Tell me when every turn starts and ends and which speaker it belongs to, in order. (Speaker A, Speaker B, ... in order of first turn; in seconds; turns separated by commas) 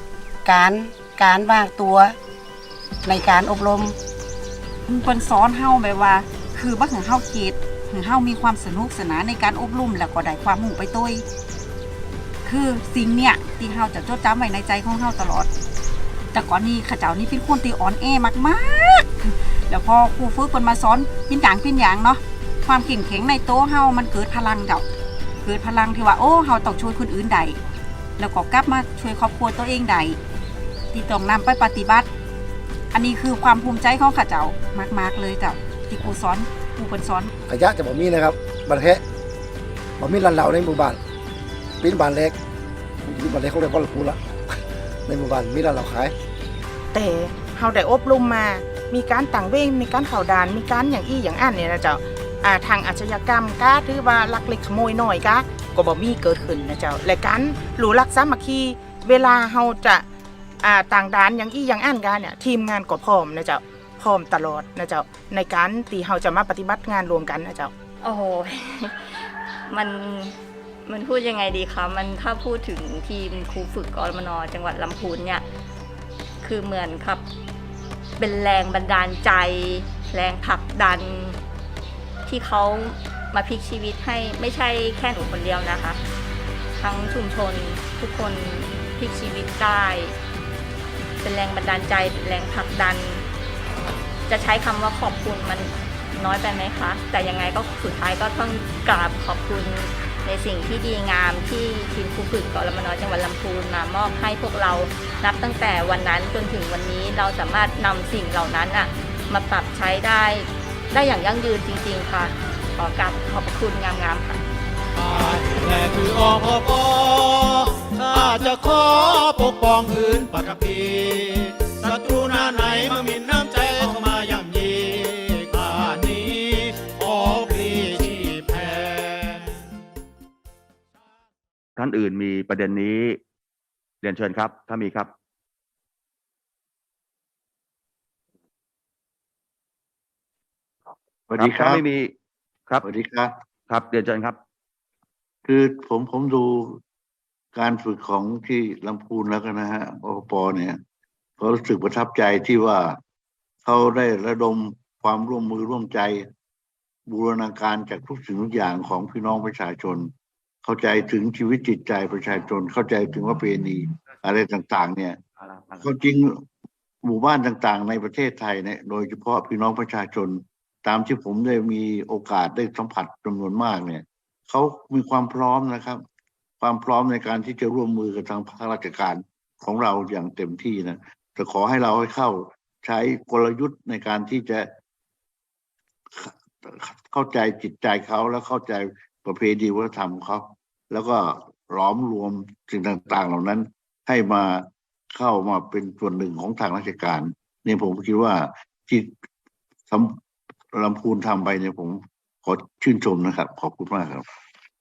Speaker A: 0.5-2.2, Speaker A: 3.0-4.0, Speaker B: 4.9-11.2, Speaker B: 12.4-15.5, Speaker B: 16.3-24.9, Speaker B: 25.4-27.6, Speaker B: 28.2-30.2, Speaker B: 30.9-32.1, Speaker B: 32.9-37.3, Speaker C: 37.5-39.0, Speaker C: 40.0-41.0, Speaker C: 41.8-42.4, Speaker C: 43.1-44.4, Speaker C: 45.1-46.1, Speaker D: 46.9-60.0, Speaker D: 60.6-67.7, Speaker E: 68.0-75.4, Speaker E: 76.4-77.2, Speaker E: 78.2-81.4, Speaker E: 82.3-86.0, Speaker E: 86.8-90.1, Speaker E: 91.2-93.2, Speaker E: 94.3-114.4, Speaker F: 115.0-129.5, Speaker G: 131.8-133.2, Speaker G: 134.0-135.1, Speaker H: 141.3-141.8, Speaker G: 141.4-142.1, Speaker H: 142.8-143.3, Speaker G: 143.7-144.4, Speaker H: 145.4-146.8, Speaker H: 147.5-150.8, Speaker H: 151.4-153.0, Speaker H: 153.7-156.3, Speaker H: 157.1-160.1, Speaker H: 160.6-165.2, Speaker G: 165.4-165.9, Speaker H: 165.8-166.4, Speaker H: 167.0-176.0, Speaker H: 176.6-184.7, Speaker H: 186.1-199.1, Speaker H: 199.9-200.2, Speaker H: 200.7-204.3